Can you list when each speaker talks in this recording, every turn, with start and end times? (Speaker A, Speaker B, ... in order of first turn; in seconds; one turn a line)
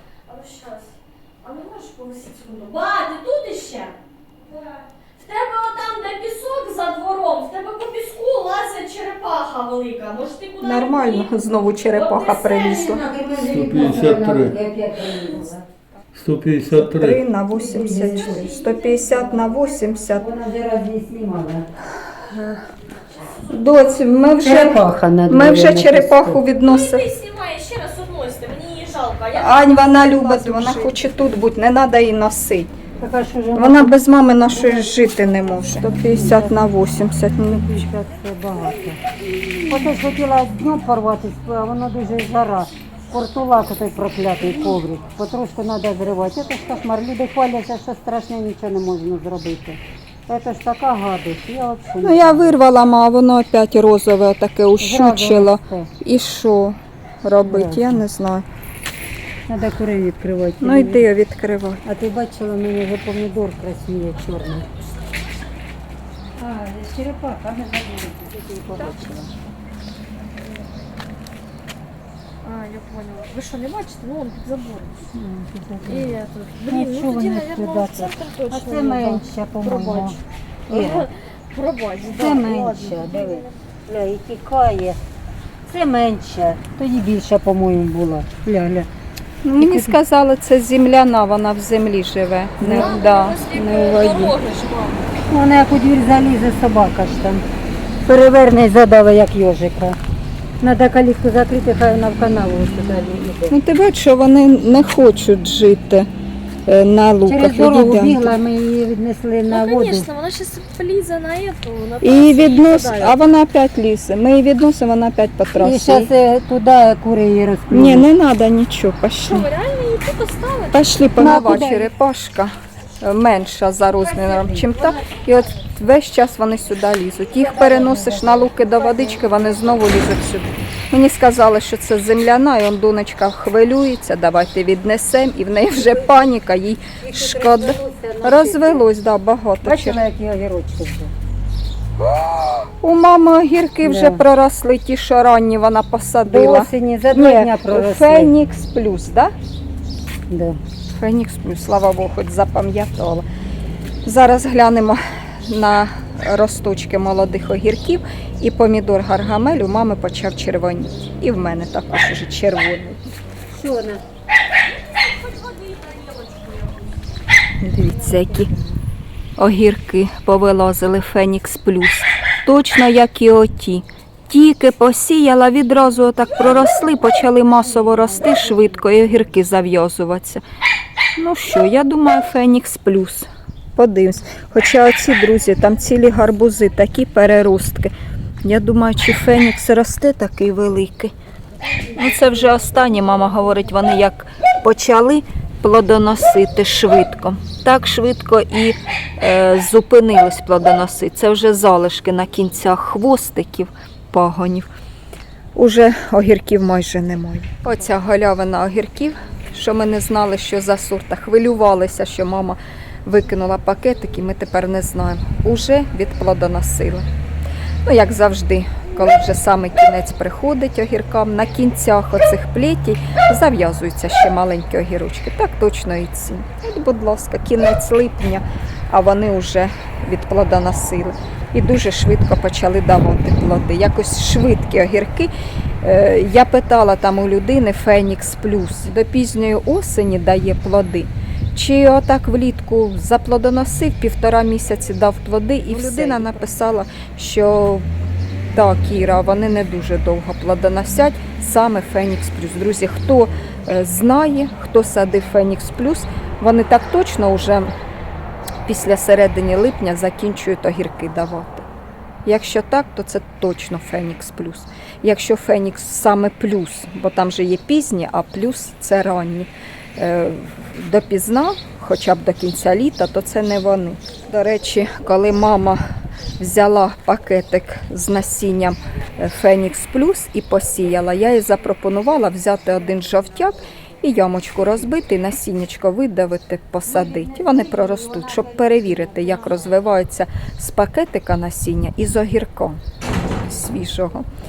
Speaker A: 0.3-4.0
Speaker A: 4.5-12.9
Speaker B: 10.6-13.0
Speaker C: 12.6-15.7
Speaker D: 13.5-14.5
Speaker D: 16.1-17.2
Speaker B: 16.7-20.3
Speaker C: 17.5-21.7
Speaker A: 18.2-18.9
Speaker B: 22.3-22.6
Speaker B: 23.5-27.1
Speaker C: 24.4-26.5
Speaker A: 26.5-30.1
Speaker B: 29.3-32.7
Speaker C: 29.9-31.0
Speaker C: 33.0-36.7
Speaker B: 33.6-37.9
Speaker C: 37.3-39.0
Speaker C: 39.7-52.6
Speaker B: 52.0-58.5
Speaker C: 54.8-55.9
Speaker C: 57.5-58.0
Speaker C: 59.5-61.0
Speaker B: 60.6-61.8
Speaker C: 61.9-64.7
Speaker C: 66.4-69.3
Speaker A: 68.8-69.1
Speaker A: 72.4-75.0
Speaker C: 75.1-81.1
Speaker A: 75.9-83.5
Speaker C: 82.0-85.0
Speaker C: 85.7-88.9
Speaker B: 89.4-94.4
Speaker C: 89.6-90.0
Speaker C: 92.6-93.0
Speaker A: 92.7-95.1
Speaker C: 95.2-97.5
Speaker C: 98.0-100.0
Speaker C: 100.6-103.6
Speaker B: 103.5-106.1
Speaker B: 106.7-108.3
Speaker C: 107.2-110.1
Speaker A: 109.5-113.2
Speaker B: 112.0-116.1
Speaker C: 115.6-118.1
Speaker B: 117.7-119.5
Speaker A: 119.3-120.9
Speaker B: 120.7-140.0
Speaker C: 121.2-121.9
Speaker C: 124.0-125.0
Speaker C: 127.3-129.9
Speaker C: 135.7-136.2
Speaker C: 137.0-138.9
Speaker C: 139.6-141.1
Speaker B: 142.0-149.3
Speaker C: 143.8-144.3
Speaker C: 146.3-148.3
Speaker C: 150.3-150.6
Speaker B: 151.0-153.3
Speaker B: 154.1-163.0
Speaker C: 163.5-164.0
Speaker A: 164.9-167.0
Speaker B: 167.6-168.5
Speaker C: 167.8-168.8
Speaker B: 169.4-180.4
Speaker C: 177.6-179.2
Speaker B: 181.2-187.9
Speaker B: 188.4-191.1
Speaker C: 191.8-193.2
Speaker B: 191.9-204.7
Speaker B: 205.6-217.1
Speaker B: 217.8-247.9
Speaker C: 245.8-246.3
Speaker B: 248.5-257.7
Speaker B: 258.6-261.7
Speaker B: 262.2-275.8
Speaker B: 276.4-292.8
Speaker C: 286.9-289.8
Speaker B: 293.4-294.3